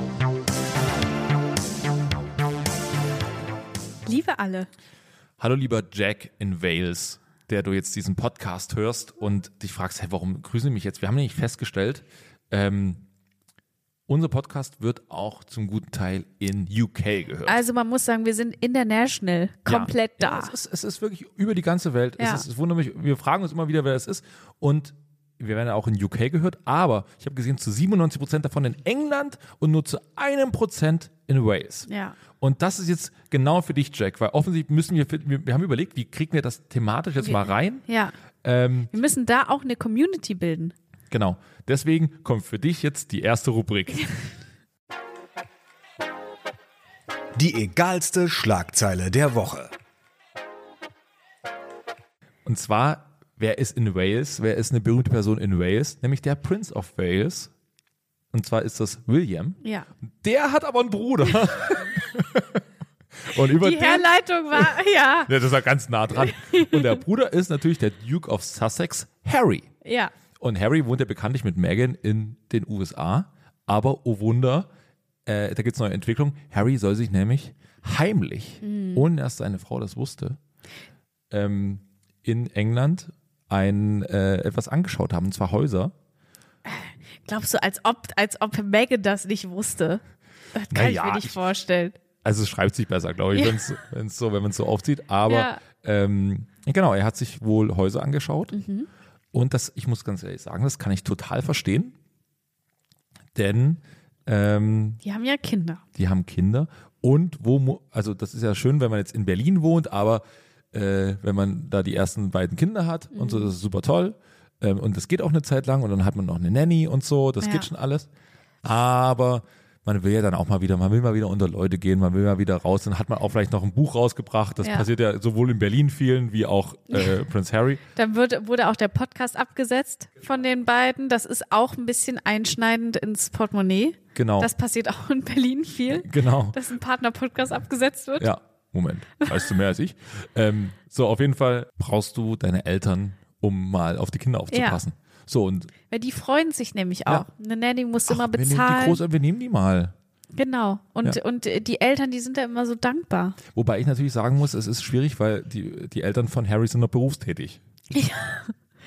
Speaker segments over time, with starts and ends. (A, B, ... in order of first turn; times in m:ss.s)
0:04.0-0:04.7 A
0:05.4-0:13.0 B
0:14.1-0:17.6 B
0:17.4-0:20.5 A
0:19.7-0:31.9 B
0:22.2-0:22.4 A
0:31.9-0:32.2 A
0:32.4-0:37.8 B
0:37.2-0:38.1 A
0:38.4-0:38.9 B
0:38.9-0:40.7 A
0:41.1-0:44.1 B
0:47.3-0:49.7 C
0:52.4-0:57.5 B
0:58.3-0:59.6 B
0:59.6-0:59.9 A
1:00.2-1:02.6 B
1:03.2-1:04.7 B
1:03.5-1:05.3 A
1:05.3-1:09.7 B
1:06.2-1:07.0 A
1:09.8-1:10.1 A
1:10.4-1:14.7 B
1:15.2-1:20.4 B
1:18.6-1:19.1 A
1:21.3-1:25.9 B
1:26.6-1:30.0 A
1:30.5-1:32.0 A
1:30.7-1:31.4 B
1:32.2-1:38.5 B
1:33.3-1:33.6 A
1:35.3-1:35.6 A
1:38.5-1:38.9 A
1:39.3-1:41.9 B
1:43.3-1:45.0 B
1:45.0-1:45.8 A
1:45.9-1:58.1 B
1:53.1-1:53.5 A
1:57.4-1:57.7 A
1:58.6-2:07.8 B
2:08.0-2:18.3 A
2:14.1-2:14.5 B
2:15.9-2:16.6 B
2:18.2-2:25.7 B
2:24.5-2:24.8 A
2:25.9-2:29.0 A
2:28.1-2:29.9 B
2:30.3-2:33.4 A
2:33.5-2:37.6 B
2:37.9-2:38.5 A